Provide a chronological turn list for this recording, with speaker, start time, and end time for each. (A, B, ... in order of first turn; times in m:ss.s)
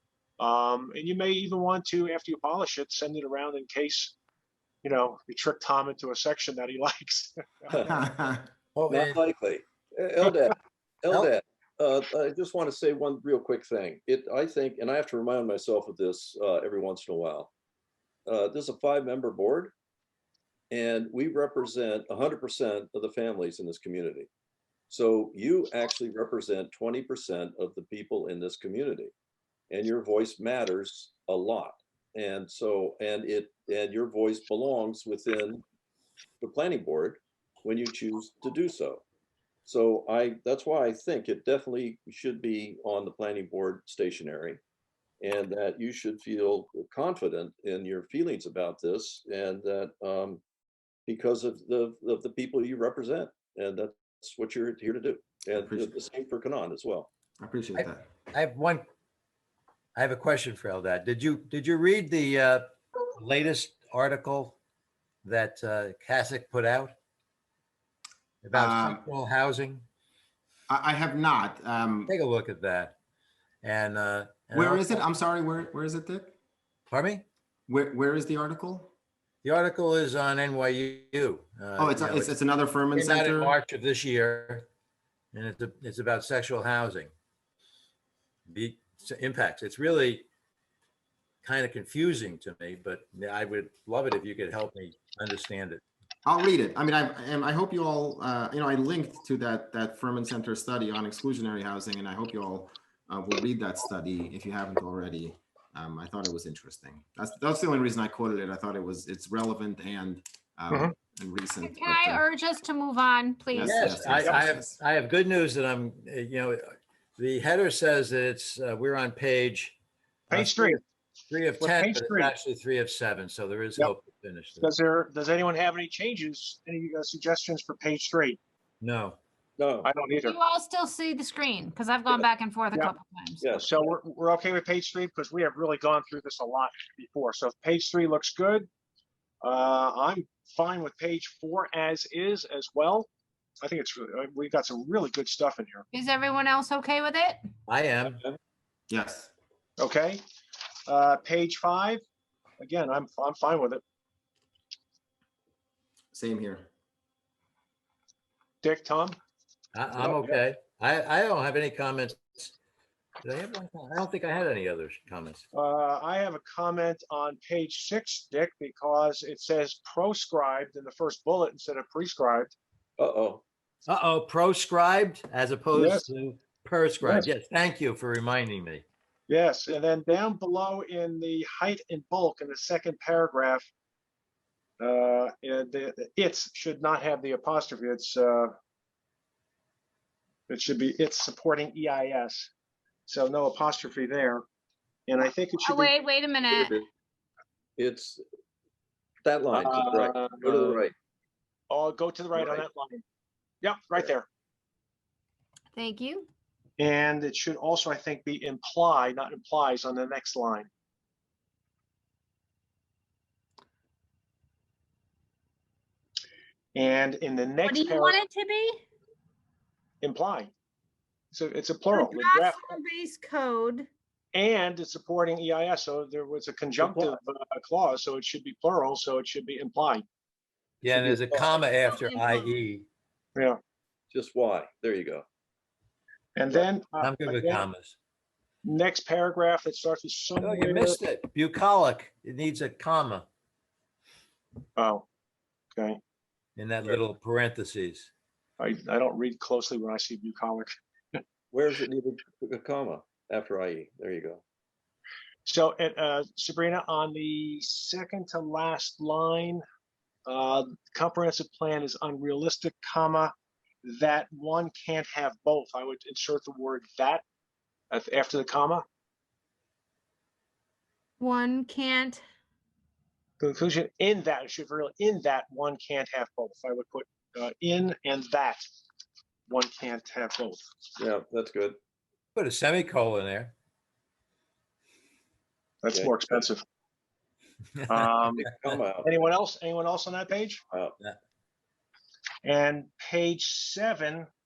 0:00.4-0:04.1 A
0:04.8-0:07.7 A
0:07.9-0:08.4 B
0:08.7-0:09.2 C
0:08.9-0:17.5 D
0:18.2-0:19.7 D
0:20.7-0:24.3 D
0:24.9-0:29.1 D
0:29.7-0:35.6 D
0:36.4-0:39.0 D
0:39.6-0:44.6 D
0:45.2-0:50.4 D
0:51.0-0:57.1 D
0:55.5-0:55.9 B
0:57.4-0:58.1 B
0:57.8-0:58.8 C
0:59.9-1:04.6 C
1:05.2-1:07.0 C
1:08.4-1:09.8 C
1:08.5-1:09.0 B
1:10.7-1:12.1 B
1:12.1-1:12.9 C
1:13.6-1:15.0 C
1:14.5-1:16.3 B
1:16.9-1:17.2 C
1:17.7-1:18.9 B
1:19.4-1:22.3 C
1:21.8-1:23.6 B
1:22.9-1:24.6 C
1:25.3-1:27.1 C
1:28.5-1:30.2 C
1:31.4-1:35.8 C
1:36.2-1:52.2 B
1:51.6-1:54.0 E
1:53.5-1:54.8 B
1:53.6-1:59.8 C
1:54.1-1:54.4 A
2:00.3-2:00.8 A
2:00.3-2:04.7 C
2:01.6-2:02.3 A
2:04.6-2:08.4 A
2:08.8-2:09.2 C
2:09.6-2:09.9 D
2:09.8-2:10.4 A
2:10.2-2:13.4 E
2:13.4-2:13.9 D
2:13.5-2:18.7 A
2:19.4-2:23.1 A
2:23.6-2:25.8 A
2:25.9-2:27.4 E
2:27.7-2:28.2 C
2:28.9-2:29.3 B
2:29.8-2:30.2 A
2:30.8-2:32.0 A
2:32.6-2:33.8 A
2:36.1-2:36.7 B
2:38.6-2:39.2 A
2:39.7-2:42.5 C
2:40.0-2:40.2 D
2:43.2-2:45.4 C
2:45.5-2:52.5 A
2:53.0-2:53.4 D
2:53.8-2:58.8 C
2:55.7-2:56.0 A
2:57.0-2:57.3 A
2:59.3-3:03.7 A
3:04.8-3:08.5 A
3:10.5-3:12.5 A
3:13.1-3:14.4 A
3:15.1-3:15.9 A
3:15.6-3:16.8 E
3:16.5-3:16.8 D
3:17.8-3:18.2 D
3:19.2-3:20.9 D
3:19.5-3:20.8 A
3:21.7-3:23.0 A
3:22.4-3:22.6 D
3:23.6-3:24.2 A
3:25.7-3:26.3 E
3:26.8-3:30.7 A
3:36.7-3:38.2 A
3:37.6-3:38.8 E
3:40.0-3:40.5 A
3:41.3-3:42.8 A
3:41.9-3:43.9 E
3:44.3-3:50.0 A
3:46.8-3:47.2 D
3:50.8-3:52.8 C
3:50.9-3:51.6 D
3:51.7-3:52.6 E
3:54.1-3:55.2 D
3:56.4-3:57.7 A
3:57.0-3:58.0 C
3:58.6-4:01.0 A
4:00.4-4:03.2 C
4:04.8-4:05.0 A
4:06.6-4:08.1 C
4:08.6-4:11.2 A
4:11.5-4:14.4 D
4:15.4-4:19.6 A
4:20.2-4:23.3 A
4:23.8-4:27.2 A
4:27.9-4:28.8 A
4:31.2-4:32.2 E
4:33.4-4:38.6 A
4:39.5-4:40.6 A
4:41.0-4:41.8 D
4:42.3-4:43.5 C
4:45.8-4:46.6 A
4:45.9-4:46.4 D
4:47.8-4:48.1 C
4:47.9-4:48.4 A
4:48.4-4:49.1 D
4:49.0-4:50.6 A
4:52.4-4:54.3 A